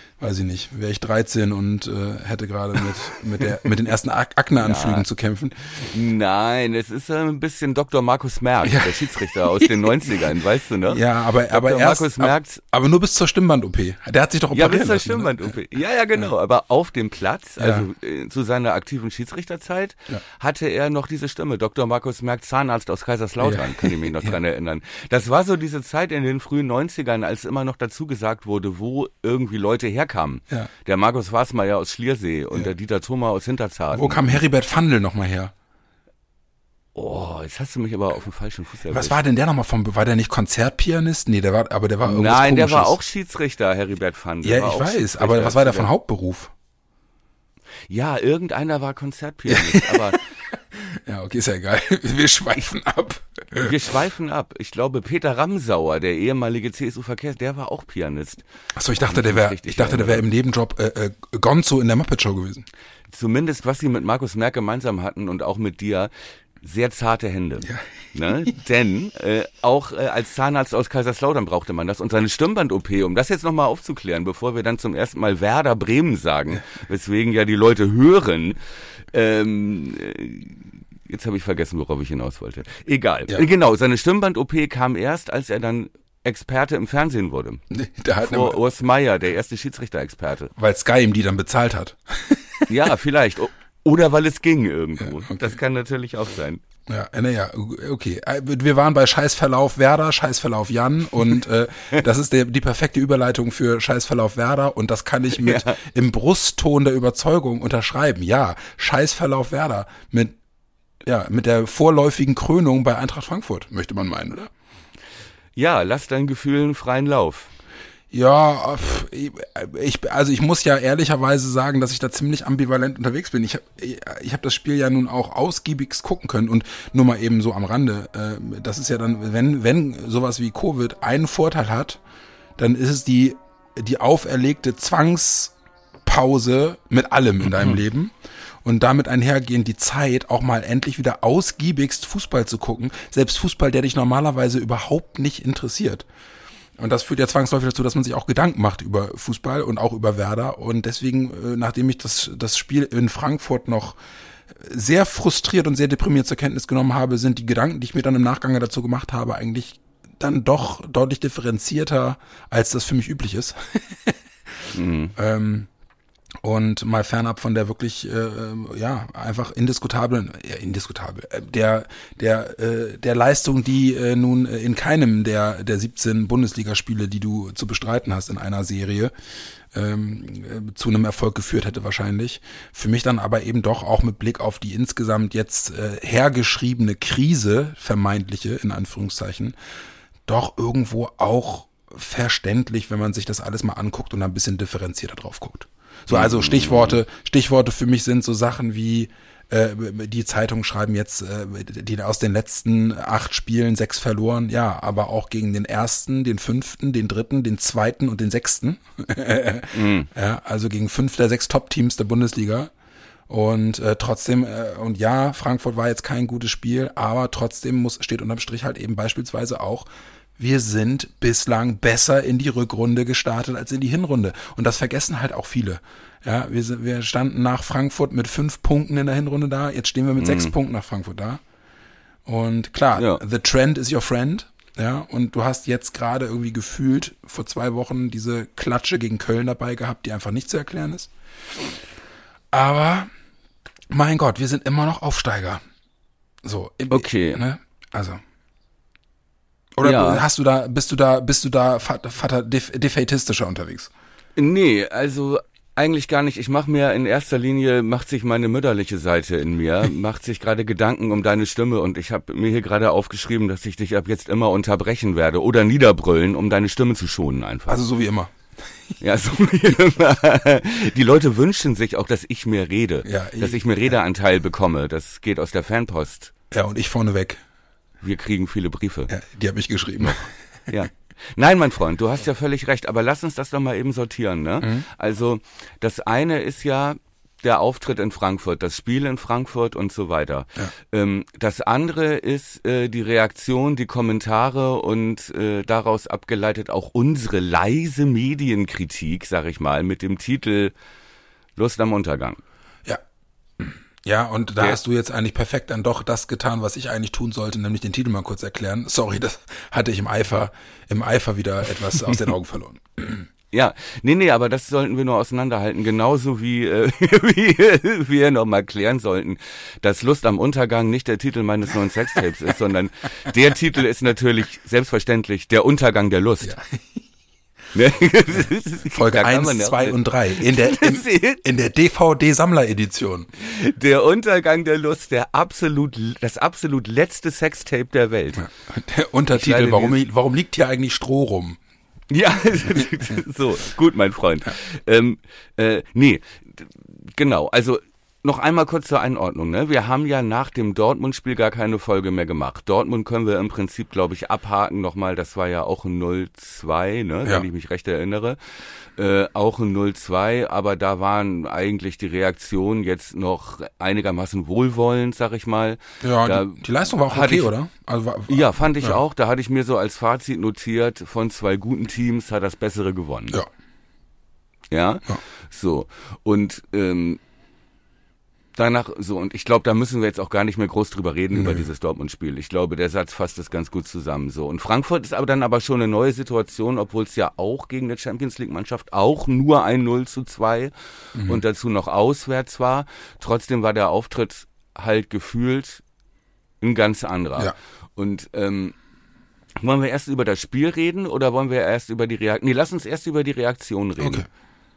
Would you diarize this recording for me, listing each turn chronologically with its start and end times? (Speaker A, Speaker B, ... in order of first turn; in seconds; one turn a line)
Speaker A: 0.2-5.5
Speaker B: 4.6-5.0
Speaker B: 5.8-12.6
Speaker A: 8.6-10.3
Speaker A: 10.9-15.5
Speaker B: 14.5-34.4
Speaker A: 17.6-17.9
Speaker A: 23.4-24.4
Speaker A: 33.9-35.5
Speaker B: 36.9-39.2
Speaker A: 38.9-43.0
Speaker B: 42.0-45.9
Speaker A: 44.4-46.5
Speaker B: 47.9-50.2
Speaker A: 49.5-53.7
Speaker B: 53.5-58.4
Speaker A: 58.8-62.6
Speaker B: 59.0-60.2
Speaker B: 63.1-66.1
Speaker B: 66.6-78.6
Speaker B: 79.1-87.6
Speaker A: 87.7-88.6
Speaker B: 88.2-90.5
Speaker A: 90.5-92.7
Speaker B: 92.7-96.6
Speaker A: 95.0-95.5
Speaker A: 96.9-110.3
Speaker B: 105.3-105.8
Speaker A: 111.0-114.5
Speaker B: 115.5-117.5
Speaker A: 118.1-132.0
Speaker A: 132.6-135.5
Speaker A: 136.0-146.1
Speaker A: 146.8-154.0
Speaker A: 154.5-164.2
Speaker B: 164.7-165.1
Speaker A: 165.1-165.7
Speaker A: 166.4-179.1
Speaker A: 179.7-189.6
Speaker A: 190.3-212.7
Speaker B: 196.1-197.0
Speaker B: 209.7-210.1
Speaker A: 213.3-231.4
Speaker B: 230.2-230.5
Speaker A: 232.2-241.1
Speaker B: 232.9-233.2
Speaker A: 242.5-243.1
Speaker A: 243.9-245.6
Speaker A: 246.4-248.2
Speaker B: 246.9-247.4
Speaker A: 249.8-253.9
Speaker B: 249.8-250.2
Speaker B: 254.3-267.8
Speaker A: 267.7-268.3
Speaker B: 269.0-276.3
Speaker A: 273.0-273.7
Speaker A: 276.5-277.4
Speaker B: 278.0-279.1
Speaker A: 279.1-280.3
Speaker B: 280.7-300.7
Speaker B: 301.6-302.4
Speaker A: 303.6-313.3
Speaker B: 313.5-326.6
Speaker A: 326.4-326.8
Speaker B: 327.7-331.4
Speaker A: 328.9-333.3
Speaker B: 333.4-338.5
Speaker A: 338.4-341.6
Speaker B: 339.3-340.0
Speaker B: 342.1-358.4
Speaker B: 359.0-367.5
Speaker A: 366.0-369.0
Speaker B: 368.3-373.4
Speaker B: 374.7-377.2
Speaker B: 378.6-390.7
Speaker A: 381.3-381.6
Speaker A: 391.1-391.4
Speaker B: 391.2-395.8
Speaker B: 396.6-398.7
Speaker B: 399.6-404.2
Speaker A: 404.0-404.2